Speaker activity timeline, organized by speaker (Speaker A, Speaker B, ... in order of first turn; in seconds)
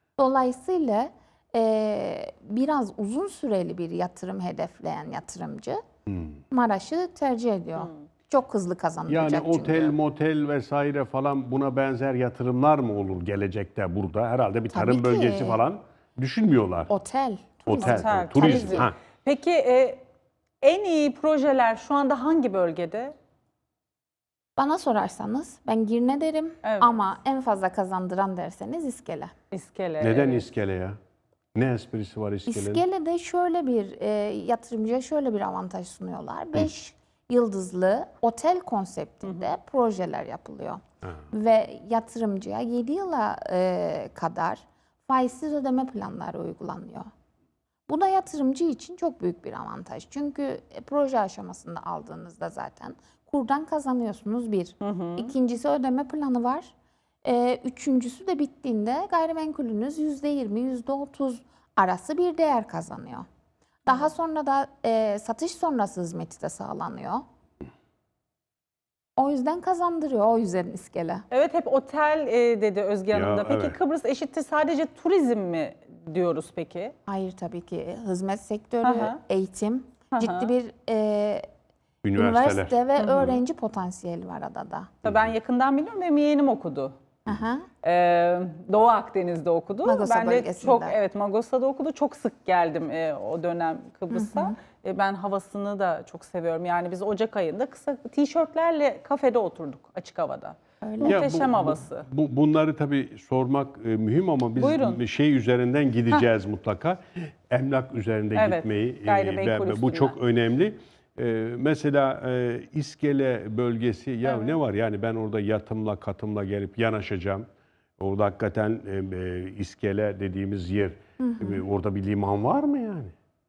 Speaker A: 0.2-5.8, 6.5-9.9, 14.7-15.6, 16.9-18.9, 24.6-29.3, 32.5-47.1, 47.9-63.2, 63.9-67.2, 69.2-71.2, 77.1-81.5, 82.2-84.9, 87.2-87.7, 89.8-91.0, 94.1-94.6, 100.8-101.3, 121.2-121.6
Speaker B: 6.1-6.4, 9.1-16.9, 17.6-18.9, 30.0-31.0, 31.5-32.8, 73.1-73.8, 82.0-82.8, 101.0-117.5, 118.0-123.1
Speaker C: 17.8-20.0, 20.6-23.1, 26.6-27.0, 29.5-30.4, 54.8-55.3, 71.3-76.9, 78.8-79.2, 80.1-80.5, 83.0-83.4, 85.0-86.9, 87.8-102.1, 104.6-105.0, 108.3-110.2, 114.2-114.6